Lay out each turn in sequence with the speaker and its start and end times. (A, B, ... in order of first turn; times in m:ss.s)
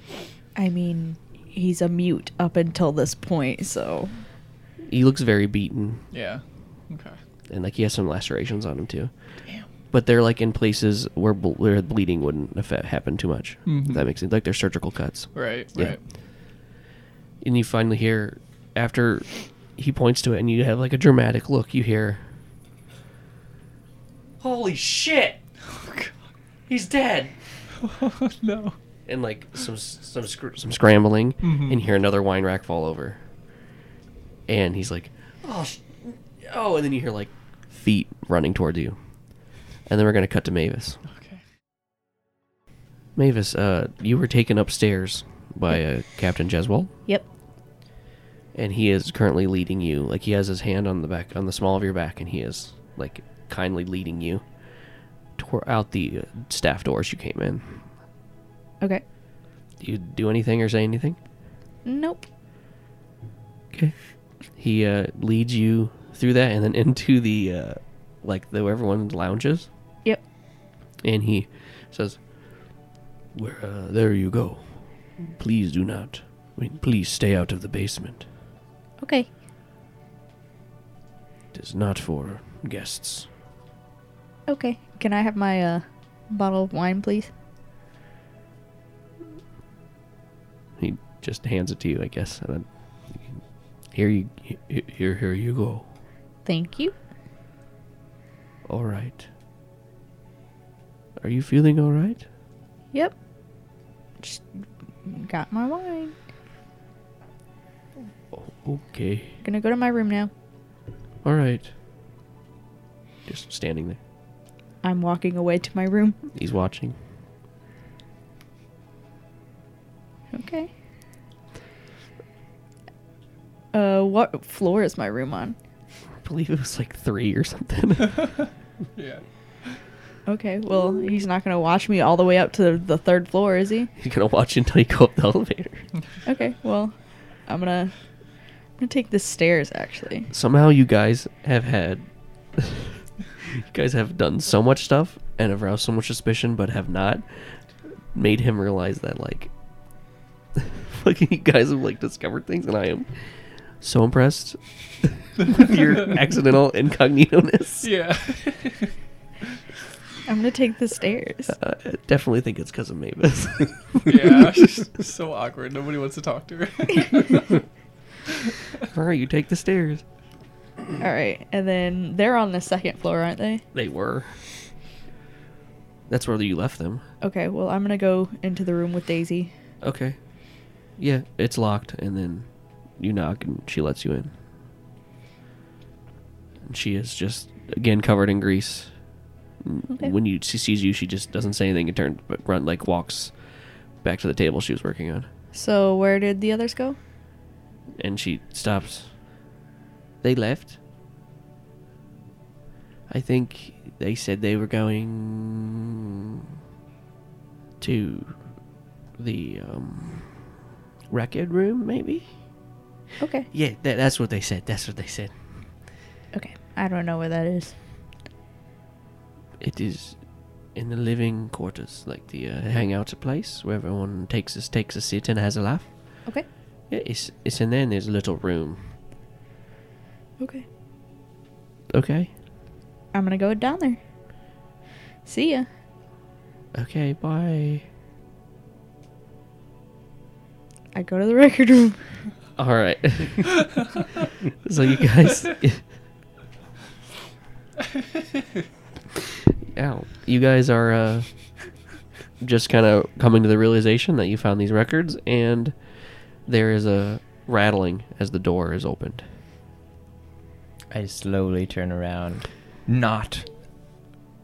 0:00.6-0:04.2 A
0:04.9-0:06.0 B
0:06.1-0:07.2 C
0:07.5-0:09.1 B
0:09.9-0:16.0 B
0:13.7-0:14.0 C
0:15.3-0:16.0 C
0:17.4-0:22.2 B
0:24.4-0:25.4 B
0:25.7-0:26.1 C
0:26.7-0:27.3 B
0:27.8-0:28.8 C
0:29.1-0:33.2 B
0:31.4-0:31.8 C
0:34.5-0:39.0 B
0:39.9-0:41.0 B
0:41.1-0:41.4 C
0:43.2-0:46.9 B
0:48.5-0:54.5 B
0:55.4-0:57.9 B
0:59.8-1:01.2 B
1:01.8-1:02.3 A
1:04.5-1:09.7 B
1:11.0-1:12.8 B
1:13.3-1:18.3 B
1:19.0-1:19.3 A
1:21.5-1:23.3 B
1:24.5-1:27.3 A
1:30.8-1:33.4 B
1:33.9-1:35.9 B
1:36.4-1:37.0 A
1:38.7-1:39.3 B
1:41.2-1:42.3 B
1:44.2-1:44.5 A
1:45.0-1:46.1 A
1:48.3-1:49.4 B
1:49.4-1:50.3 A
1:51.2-1:51.7 B
1:53.3-1:54.0 B
1:54.8-1:56.2 A
1:56.3-1:57.0 B
2:00.3-2:00.7 A
2:03.7-2:05.6 A
2:06.2-2:08.2 B
2:08.1-2:09.8 C
2:10.3-2:13.9 A
2:14.0-2:15.9 B
2:16.3-2:17.9 A
2:18.8-2:20.3 A
2:20.3-2:27.6 B
2:28.1-2:29.5 B
2:30.6-2:37.9 B
2:37.8-2:38.9 C
2:40.3-2:41.6 A
2:41.5-2:44.2 B
2:44.0-2:47.6 C
2:48.9-2:50.0 B
2:51.0-2:53.6 A
2:53.7-2:54.3 B
2:56.1-2:57.0 B
2:57.2-2:59.5 A
2:59.8-3:00.2 B
3:01.0-3:04.3 B
3:06.6-3:08.9 B
3:09.6-3:13.4 B
3:14.0-3:15.3 B
3:15.5-3:17.0 A
3:18.0-3:19.1 B
3:20.2-3:20.8 B
3:23.1-3:25.9 B
3:27.8-3:28.4 B
3:29.2-3:30.5 B
3:31.1-3:32.3 B
3:33.2-3:33.5 A
3:33.5-3:35.6 B
3:36.3-3:37.8 A
3:39.6-3:46.3 B
3:46.9-3:48.9 B
3:50.4-3:50.7 A
3:51.9-3:52.3 B
3:53.1-3:54.0 A
3:55.2-3:55.7 A
3:56.7-3:57.9 B
4:00.9-4:02.0 A
4:02.6-4:03.7 B
4:04.6-4:05.8 B
4:09.7-4:11.3 B
4:12.4-4:19.3 B
4:20.9-4:23.5 D